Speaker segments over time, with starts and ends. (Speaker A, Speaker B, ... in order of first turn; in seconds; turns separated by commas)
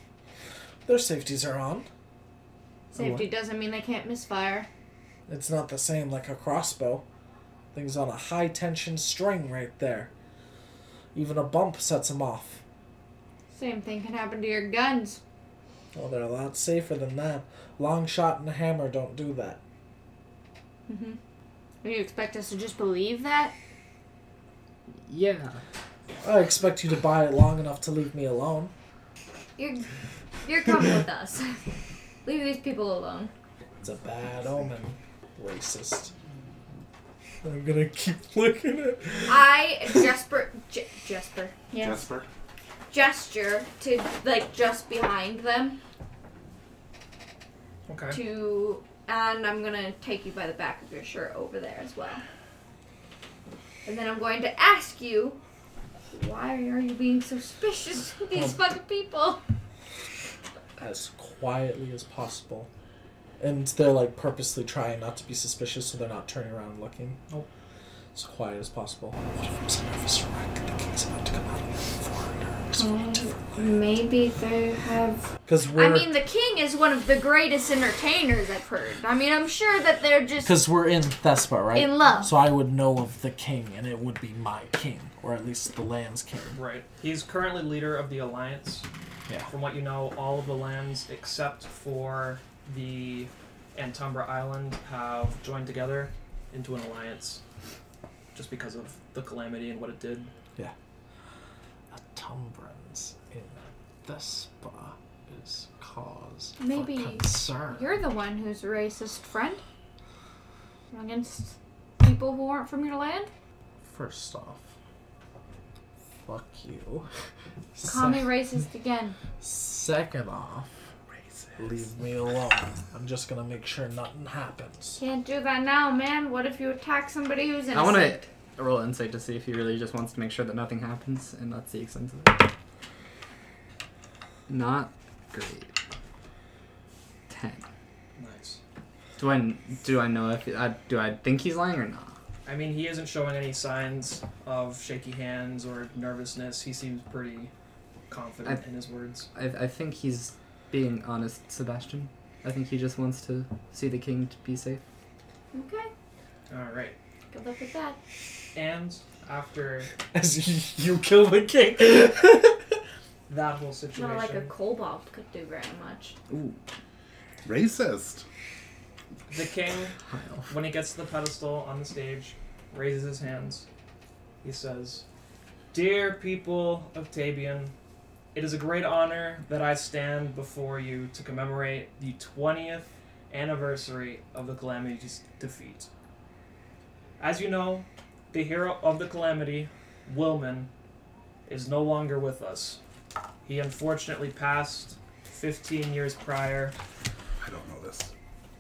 Speaker A: 0.9-1.9, Speaker B: 2.9-4.7, Speaker A: 2.9-3.3, Speaker A: 5.3-7.0, Speaker A: 7.7-10.1, Speaker A: 11.1-12.6, Speaker B: 13.5-15.2, Speaker A: 15.9-19.6, Speaker B: 20.9-21.2, Speaker B: 21.8-23.6, Speaker C: 25.1-25.6, Speaker A: 26.2-28.7, Speaker B: 29.6-29.9, Speaker B: 30.4-31.6, Speaker B: 32.2-33.3, Speaker A: 33.8-36.1, Speaker A: 37.4-40.1, Speaker B: 39.3-42.0, Speaker D: 41.8-42.3, Speaker B: 42.9-45.8, Speaker E: 47.9-48.2, Speaker B: 48.1-52.2, Speaker B: 53.9-55.4, Speaker B: 56.1-59.4, Speaker A: 58.3-58.6, Speaker A: 60.8-62.7, Speaker A: 63.4-67.2, Speaker A: 68.1-73.5, Speaker B: 72.8-80.6, Speaker A: 75.5-76.1, Speaker A: 80.4-86.6, Speaker B: 81.7-82.4, Speaker E: 86.5-88.9, Speaker E: 89.5-97.4, Speaker E: 98.3-100.3, Speaker A: 101.9-107.9, Speaker B: 106.6-109.6, Speaker B: 110.9-113.3, Speaker A: 113.9-114.6, Speaker A: 116.2-117.1, Speaker A: 117.7-118.4, Speaker B: 117.8-119.2, Speaker A: 119.4-120.7, Speaker A: 121.6-125.0, Speaker B: 125.0-128.2, Speaker C: 127.7-132.5, Speaker C: 134.5-135.7, Speaker C: 137.3-137.7, Speaker E: 138.2-138.6, Speaker C: 139.2-142.2, Speaker E: 142.5-147.5, Speaker E: 148.1-149.3, Speaker C: 149.3-154.8, Speaker B: 155.5-155.9, Speaker E: 156.5-157.0, Speaker B: 157.3-158.0, Speaker E: 158.5-159.9, Speaker A: 160.0-162.8, Speaker E: 163.3-164.5, Speaker B: 163.9-166.2, Speaker C: 166.3-166.6, Speaker D: 167.4-168.3, Speaker E: 169.3-170.0, Speaker C: 170.1-170.5, Speaker E: 170.5-173.7, Speaker E: 174.4-175.1, Speaker E: 175.7-177.7, Speaker E: 178.3-185.9, Speaker E: 187.2-190.7, Speaker E: 191.5-192.8, Speaker E: 193.4-196.8, Speaker D: 197.4-198.1